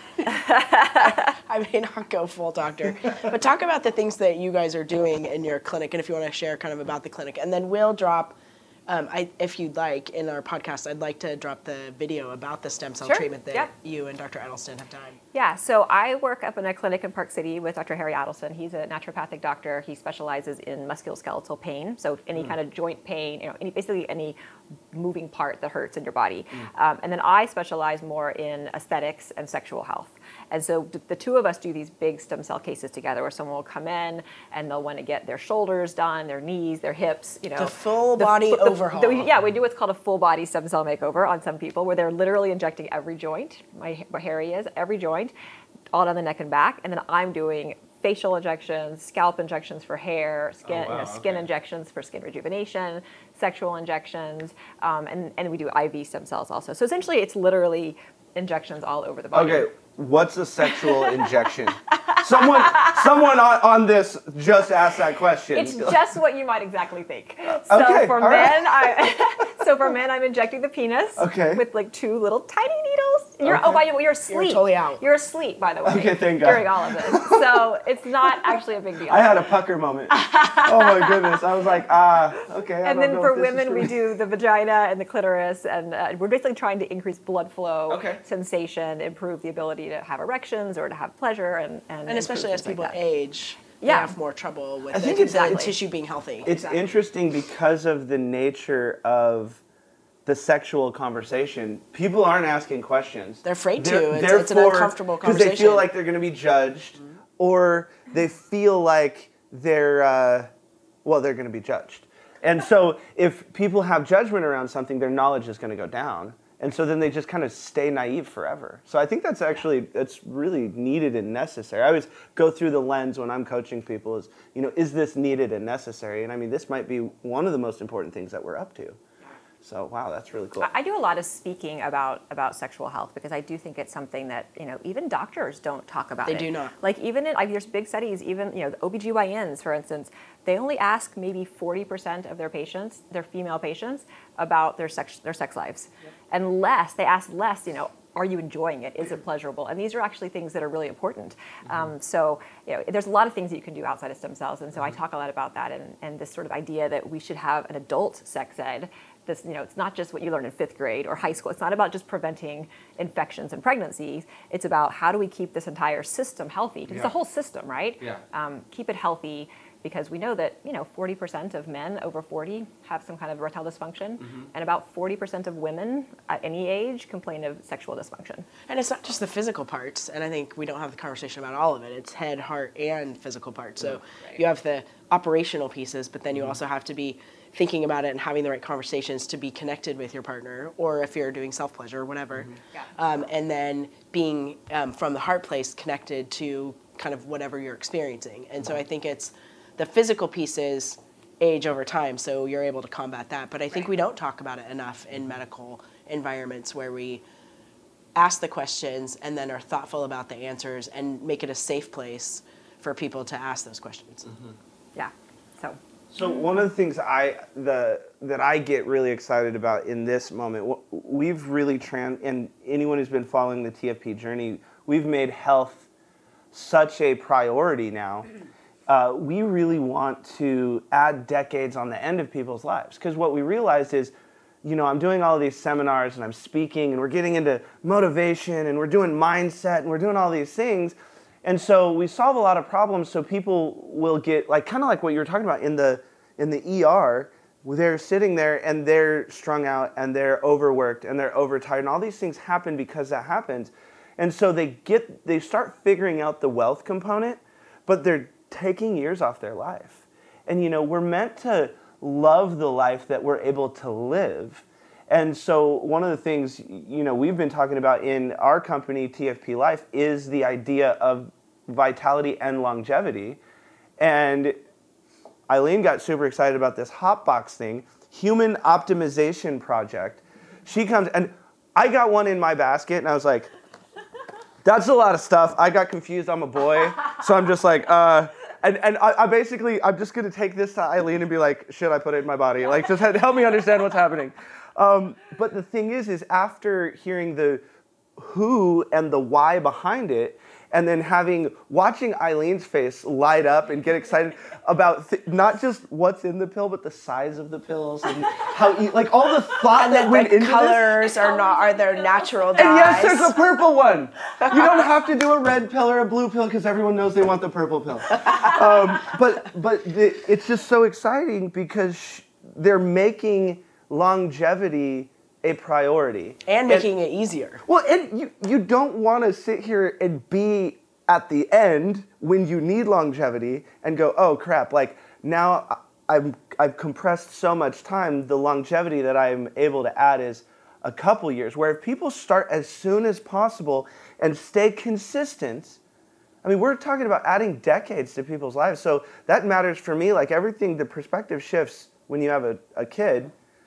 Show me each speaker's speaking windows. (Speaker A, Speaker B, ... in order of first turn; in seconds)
Speaker A: 0.2-1.3, 13.0-13.7, 15.3-24.4, 24.9-45.3, 45.9-59.7, 60.6-61.2, 62.1-63.0, 65.5-79.4, 80.1-81.4, 82.8-93.0, 93.8-94.1, 95.0-95.7, 96.4-96.8, 130.6-178.4, 214.9-215.8
Speaker B: 0.9-15.2, 37.6-39.3, 74.3-75.0, 92.1-96.5, 103.4-105.9, 136.2-136.7, 178.7-207.2, 208.2-214.3, 309.7-313.3, 326.4-327.6
Speaker C: 50.6-51.5, 59.3-66.0, 67.5-69.1, 71.2-71.6, 73.4-73.8, 75.8-77.6, 79.1-83.9, 87.9-88.2, 94.9-95.4, 96.4-99.6, 100.2-110.5, 111.0-129.0, 129.6-130.7, 216.1-225.9, 226.5-228.3, 228.9-273.4, 274.0-274.6, 275.5-283.5, 284.6-297.6, 298.2-311.0, 312.6-326.9, 327.6-345.8, 346.4-353.3